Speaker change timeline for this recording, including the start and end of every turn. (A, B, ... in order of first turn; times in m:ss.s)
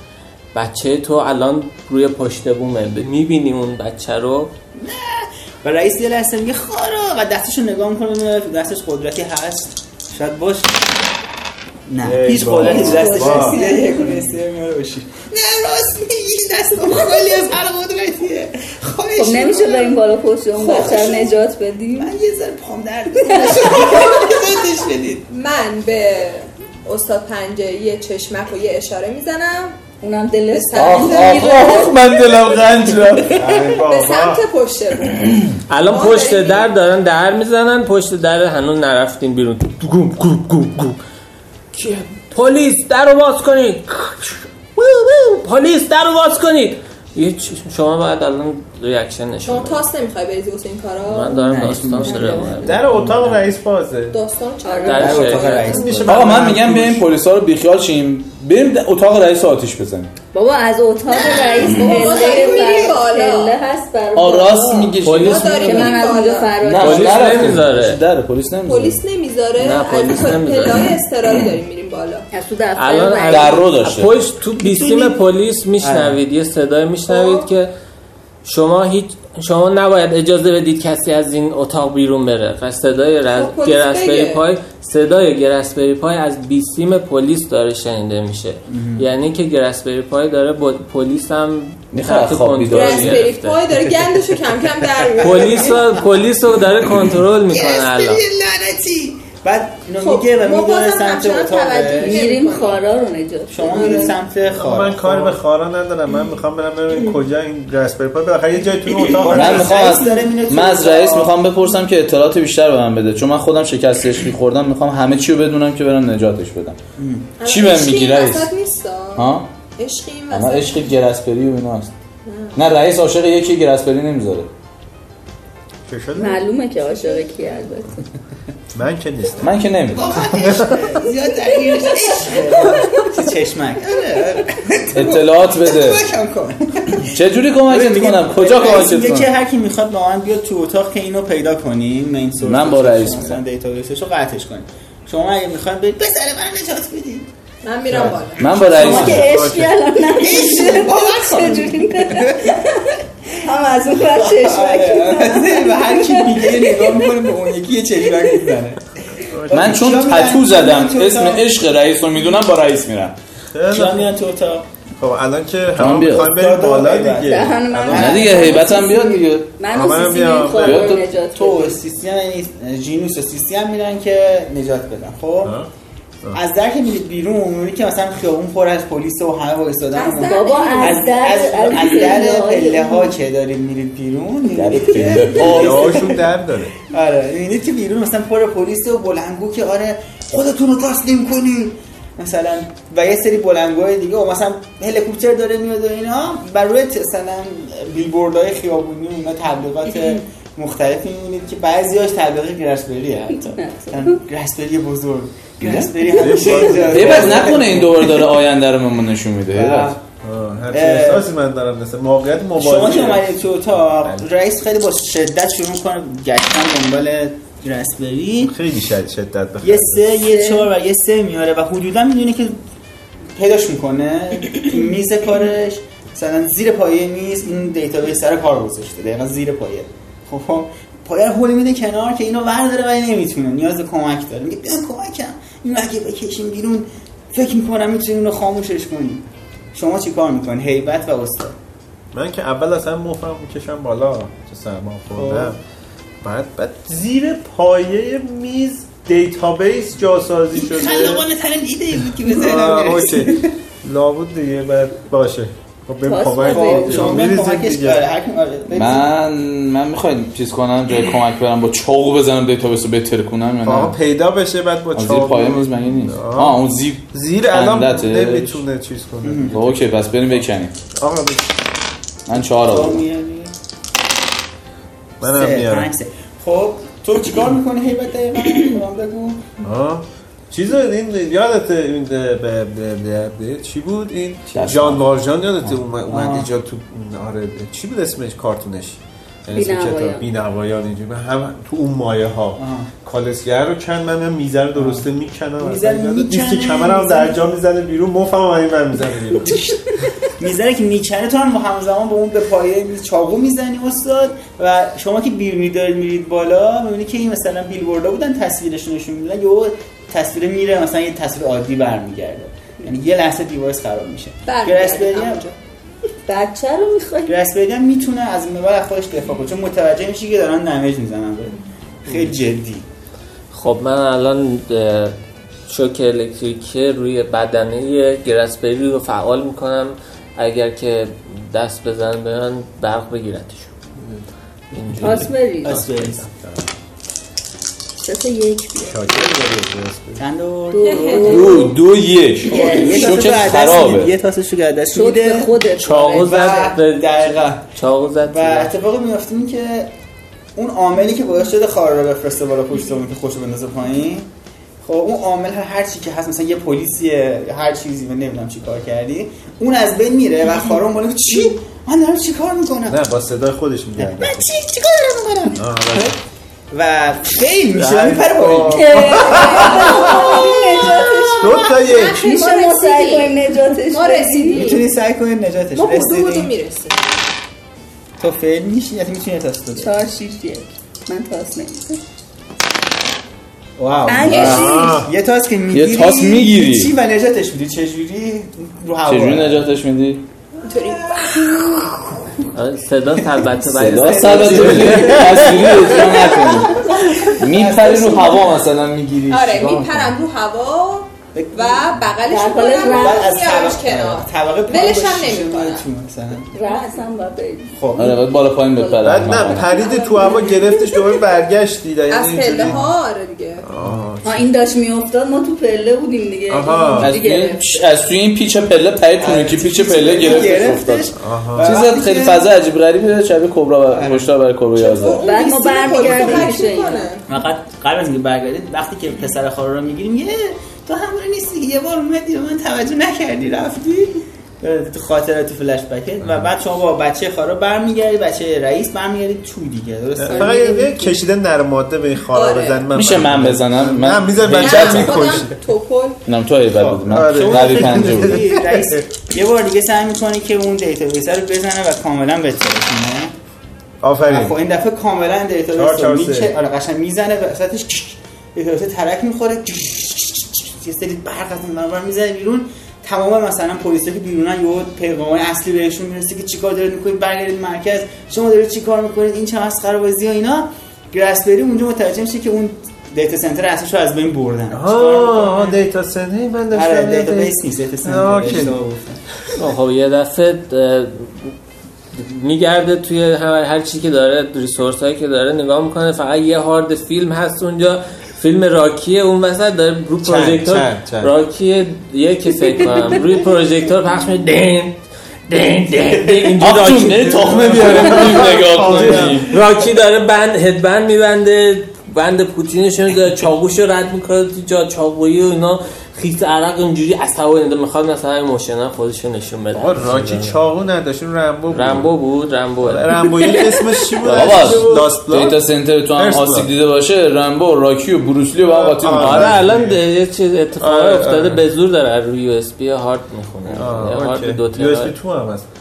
0:00.5-0:04.5 A
0:04.8-0:10.9 B
0:11.9-0:20.0 B
0:12.0-0:13.6 C
0:12.7-0:14.2 D
0:19.2-0:22.1 D
0:20.6-0:21.3 B
0:22.0-0:25.3 B
0:23.3-0:23.9 D
0:25.3-0:29.8 E
0:30.0-0:32.0 D
0:30.5-0:31.9 E
0:30.8-0:33.4 F
0:33.3-0:34.4 C
0:33.5-0:36.8 E
0:35.7-0:41.0 A
0:41.7-0:49.8 A
0:49.4-0:51.6 E
0:51.1-0:53.2 A
0:51.4-0:53.4 B
0:52.1-0:52.4 D
0:52.6-0:54.2 C
0:54.1-0:56.0 E
0:54.6-0:55.7 D
0:54.8-0:56.0 A
0:54.9-0:56.4 B
0:55.7-0:57.0 C
0:56.0-1:00.1 F
1:00.3-1:07.6 D
1:01.1-1:03.6 E
1:04.2-1:06.0 F
1:05.0-1:06.0 A
1:05.2-1:06.7 E
1:06.6-1:09.0 F
1:06.8-1:08.0 A
1:08.7-1:12.3 E
1:09.6-1:11.0 A
1:12.3-1:13.7 D
1:12.8-1:17.7 A
1:13.3-1:14.2 F
1:14.6-1:15.2 B
1:15.8-1:16.2 B
1:17.1-1:17.4 E
1:18.4-1:33.7 A
1:23.3-1:24.4 E
1:28.7-1:29.0 B
1:31.9-1:33.3 F
1:32.7-1:35.8 E
1:35.2-1:36.0 B
1:35.2-1:38.2 A
1:37.5-1:42.4 B
1:40.0-1:42.8 E
1:42.0-1:44.2 D
1:43.5-1:45.4 B
1:43.6-1:44.2 E
1:44.5-1:49.8 C
1:49.1-1:51.3 B
1:49.3-1:56.8 F
1:57.0-1:57.3 B
1:57.4-2:01.0 E
1:57.4-1:58.5 F
1:59.2-1:59.5 F
2:00.3-2:01.9 F
2:02.3-2:02.7 E
2:02.6-2:04.5 F
2:05.9-2:06.4 C
2:06.2-2:08.0 D
2:06.9-2:07.2 E
2:08.7-2:09.6 C
2:09.4-2:10.1 F
2:09.9-2:27.3 B
2:10.3-2:10.9 C
2:12.3-2:13.1 D
2:14.9-2:16.0 F
2:17.0-2:19.3 F
2:22.4-2:23.4 F
2:27.6-2:28.6 E
2:27.9-2:29.2 B
2:28.4-2:29.5 F
2:28.7-2:37.2 D
2:28.7-2:29.8 C
2:30.2-2:32.6 B
2:33.9-2:38.9 B
2:38.1-2:38.5 D
2:39.3-2:39.8 C
2:39.5-2:43.2 F
2:39.5-2:41.5 B
2:43.5-2:44.1 C
2:43.7-2:44.7 B
2:45.0-2:48.3 C
2:45.8-2:46.4 F
2:46.2-2:48.6 B
2:47.2-2:51.8 D
2:47.9-2:49.5 F
2:49.7-2:51.0 C
2:50.5-2:51.1 F
2:51.2-2:55.6 B
2:55.4-2:55.7 C
2:56.3-3:28.3 B
3:00.0-3:02.2 E
3:00.2-3:03.2 D
3:04.5-3:06.0 F
3:05.1-3:06.7 C
3:23.5-3:24.2 D
3:25.6-3:25.9 F
3:26.0-3:27.7 C
3:26.8-3:30.0 F
3:29.5-3:30.0 B
3:30.2-3:34.3 C
3:30.7-3:31.2 B
3:32.6-3:38.5 B
3:38.4-3:40.3 C
3:39.6-3:42.6 B
3:40.3-3:40.7 D
3:43.4-4:01.6 B
4:02.1-4:05.6 C
4:05.2-4:05.6 B
4:06.2-4:11.3 C
4:10.6-4:13.5 B
4:12.2-4:18.0 C
4:16.0-4:17.3 D
4:16.4-4:19.1 B
4:18.7-4:24.0 F
4:23.6-4:26.6 C
4:25.0-4:28.6 F
4:27.1-4:29.7 C
4:29.2-4:29.6 B
4:29.5-4:30.8 F
4:30.3-4:31.5 C
4:32.3-4:33.0 F
4:32.6-4:33.5 B
4:35.2-4:35.9 C
4:35.2-4:39.4 B
4:39.6-4:59.7 C
4:44.5-4:45.0 F
4:46.1-4:46.5 B
4:49.5-4:50.3 D
4:52.6-4:52.9 B
4:54.8-4:55.1 B
4:55.6-4:57.4 B
5:00.3-5:15.5 B
5:14.4-5:15.6 E
5:16.3-5:17.4 D
5:17.3-5:22.9 B
5:23.5-5:25.2 A
5:25.7-5:33.7 A
5:34.7-5:36.3 A
5:35.0-5:35.8 D
5:35.0-5:36.2 B
5:36.4-5:36.7 C
5:38.0-5:39.2 D
5:38.8-5:40.2 C
5:40.2-5:41.6 B
5:40.7-5:41.8 D
5:40.8-5:41.7 E
5:41.2-5:44.1 F
5:42.4-5:45.6 B
5:42.5-5:43.2 D
5:44.9-5:46.7 D
5:45.8-5:48.7 A
5:46.2-5:47.7 B
5:48.2-5:49.9 B
5:50.6-5:54.3 B
5:54.8-6:03.0 B
6:02.9-6:04.5 C
6:04.0-6:06.1 B
6:05.6-6:06.2 C
6:06.7-6:11.6 B
6:07.7-6:08.3 A
6:08.4-6:10.1 C
6:08.7-6:14.7 D
6:09.2-6:09.7 E
6:11.4-6:12.3 C
6:11.4-6:14.9 E
6:14.5-6:16.5 B
6:15.7-6:17.0 E
6:18.2-6:20.0 B
6:19.8-6:22.0 D
6:23.8-6:29.7 B
6:24.1-6:25.0 D
6:24.3-6:24.7 F
6:24.4-6:25.1 C
6:25.7-6:26.9 F
6:29.1-6:30.2 F
6:30.6-6:31.4 E
6:30.7-6:32.5 B
6:32.5-6:35.6 A
6:33.3-6:38.6 B
6:33.6-6:40.1 F
6:36.0-6:37.0 D
6:39.3-6:45.8 E
6:41.4-6:42.1 B
6:42.3-6:43.3 D
6:43.0-6:46.5 B
6:46.5-6:51.0 D
6:47.8-6:48.2 B
6:48.0-6:49.8 F
6:49.0-6:52.9 C
6:52.1-6:53.7 E
6:53.7-6:54.5 C
6:54.2-6:57.8 D
6:56.5-6:57.2 C
6:57.0-7:05.2 F
6:59.2-7:02.5 B
7:01.2-7:01.8 C
7:03.9-7:04.3 B
7:04.8-7:07.3 E
7:05.2-7:07.1 D
7:06.0-7:06.5 B
7:07.3-7:21.1 B
7:20.2-7:25.6 C
7:20.3-7:20.9 D
7:22.3-7:23.0 E
7:22.9-7:25.4 F
7:24.6-7:26.2 E
7:26.3-7:28.4 F
7:26.7-7:29.0 C
7:27.2-7:33.3 B
7:34.0-7:34.6 C
7:34.3-7:55.8 B
7:35.7-7:36.6 C
7:54.7-7:58.8 C
7:56.7-7:59.2 B
7:59.6-8:01.6 A
8:02.1-8:30.6 A
8:10.2-8:11.3 C
8:16.6-8:19.6 F
8:17.2-8:19.5 C
8:29.7-8:32.1 C
8:31.7-8:33.6 A
8:32.8-8:36.7 C
8:34.2-8:35.1 A
8:34.2-8:39.7 F
8:38.6-8:40.0 C
8:39.1-8:45.2 A
8:40.8-8:41.6 C
8:43.7-8:45.7 C